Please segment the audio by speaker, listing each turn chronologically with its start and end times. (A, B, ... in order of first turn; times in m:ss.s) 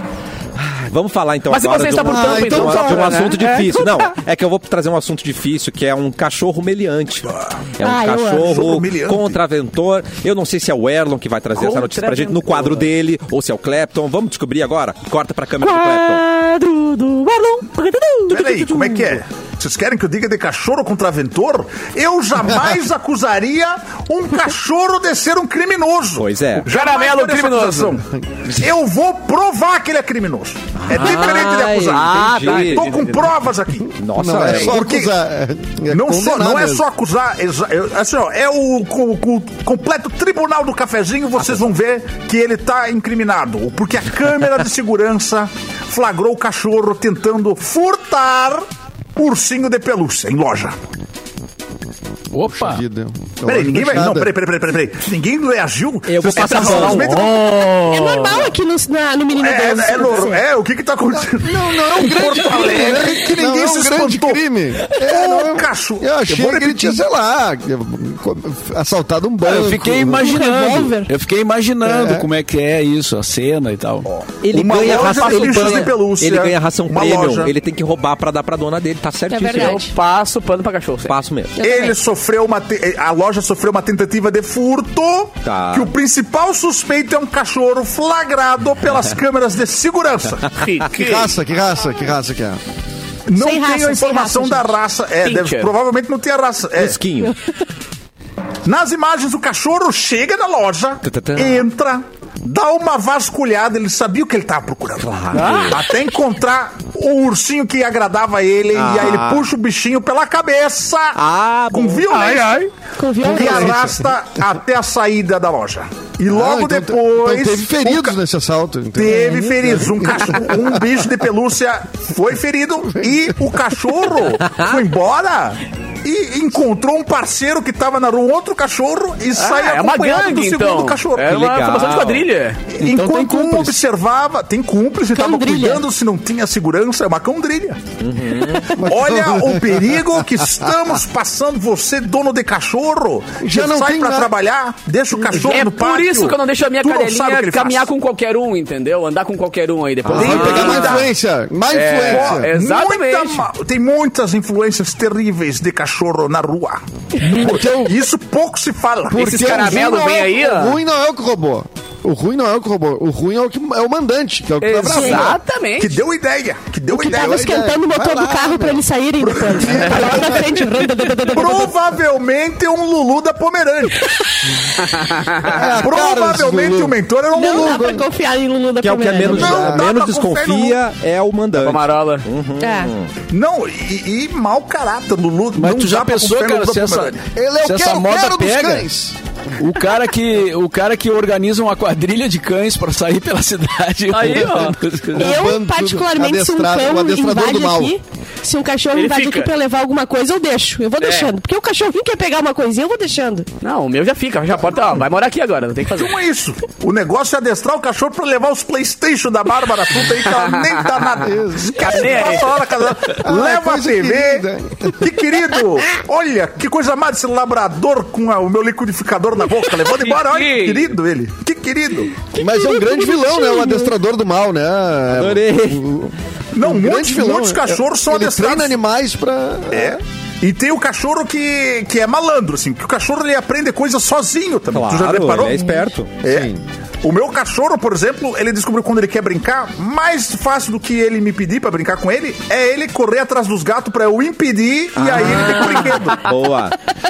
0:00.6-0:16.2 A
0:01.5-0:04.1 B
0:02.0-0:03.2 C
0:07.8-0:08.6 D
0:08.4-0:09.4 E
0:11.5-0:12.9 B
0:15.7-0:17.8 D
0:17.4-0:18.9 B
0:18.3-0:35.1 E
0:18.3-0:18.8 D
0:26.2-0:26.7 A
0:26.6-0:28.0 B
0:30.8-0:32.9 A
0:31.9-0:33.3 B
0:34.0-0:34.8 A
0:34.2-0:36.8 C
0:35.9-0:48.6 E
0:49.2-0:50.8 E
0:52.3-0:52.8 F
0:52.5-0:54.3 C
0:53.5-0:57.5 E
0:56.1-0:57.2 A
0:56.3-0:58.5 B
0:57.9-1:00.4 D
0:59.3-1:07.0 E
1:01.1-1:10.3 C
1:09.4-1:14.1 F
1:10.2-1:11.1 D
1:11.8-1:12.3 C
1:14.1-1:17.5 E
1:14.4-1:19.8 A
1:15.6-1:15.9 B
1:19.3-1:19.9 D
1:19.5-1:21.1 B
1:21.0-1:21.5 A
1:21.6-1:22.0 D
1:21.6-1:30.5 E
1:25.4-1:25.9 A
1:30.6-1:31.3 B
1:30.9-1:32.6 C
1:33.3-1:37.0 E
1:33.3-1:34.7 D
1:35.2-1:35.7 B
1:36.8-1:37.3 A
1:38.6-1:45.1 E
1:41.0-1:41.6 A
1:45.0-1:45.8 A
1:45.3-1:45.8 B
1:45.7-1:52.7 E
1:48.7-1:49.5 A
1:51.1-1:52.0 A
1:53.0-1:53.8 D
1:53.2-1:58.2 E
1:53.2-1:54.0 C
1:56.3-2:01.0 C
1:58.9-2:11.4 E
2:02.9-2:03.4 C
2:04.4-2:04.8 A
2:09.3-2:12.7 B
2:11.3-2:12.3 A
2:12.7-2:17.8 E
2:12.8-2:13.7 F
2:15.1-2:15.8 D
2:18.0-2:18.8 A
2:18.7-2:20.9 C
2:18.8-2:27.9 E
2:23.4-2:24.3 C
2:25.3-2:31.0 B
2:30.0-2:32.5 C
2:30.1-2:31.1 E
2:31.7-2:33.5 B
2:32.0-2:39.2 E
2:39.1-2:45.4 C
2:39.1-2:40.8 B
2:44.6-2:46.0 B
2:44.9-2:45.2 D
2:45.8-2:47.4 E
2:46.9-2:50.6 C
2:46.9-2:51.7 D
2:49.2-2:50.4 E
2:51.3-2:54.1 E
2:54.9-2:55.6 B
2:55.4-2:58.0 C
2:55.8-2:58.0 E
2:57.3-2:59.7 D
2:58.8-3:03.1 A
2:59.2-2:59.8 C
2:59.3-3:00.8 E
3:01.6-3:02.2 B
3:02.6-3:02.9 D
3:03.3-3:07.2 E
3:05.5-3:08.9 F
3:07.3-3:09.1 C
3:09.6-3:15.2 F
3:14.1-3:14.8 B
3:15.2-3:17.9 C
3:15.2-3:23.5 D
3:18.9-3:19.5 B
3:21.0-3:21.3 B
3:23.6-3:26.2 B
3:25.9-3:42.2 E
3:30.7-3:31.0 B
3:31.2-3:32.4 C
3:31.7-3:32.7 B
3:33.2-3:35.0 C
3:39.8-3:40.9 B
3:42.3-3:43.9 D
3:42.4-3:50.0 C
3:45.1-3:45.9 A
3:46.5-3:48.8 E
3:49.7-3:56.5 E
3:54.7-3:56.2 A
3:56.2-3:56.6 C
3:57.0-4:06.3 E
4:05.0-4:06.8 A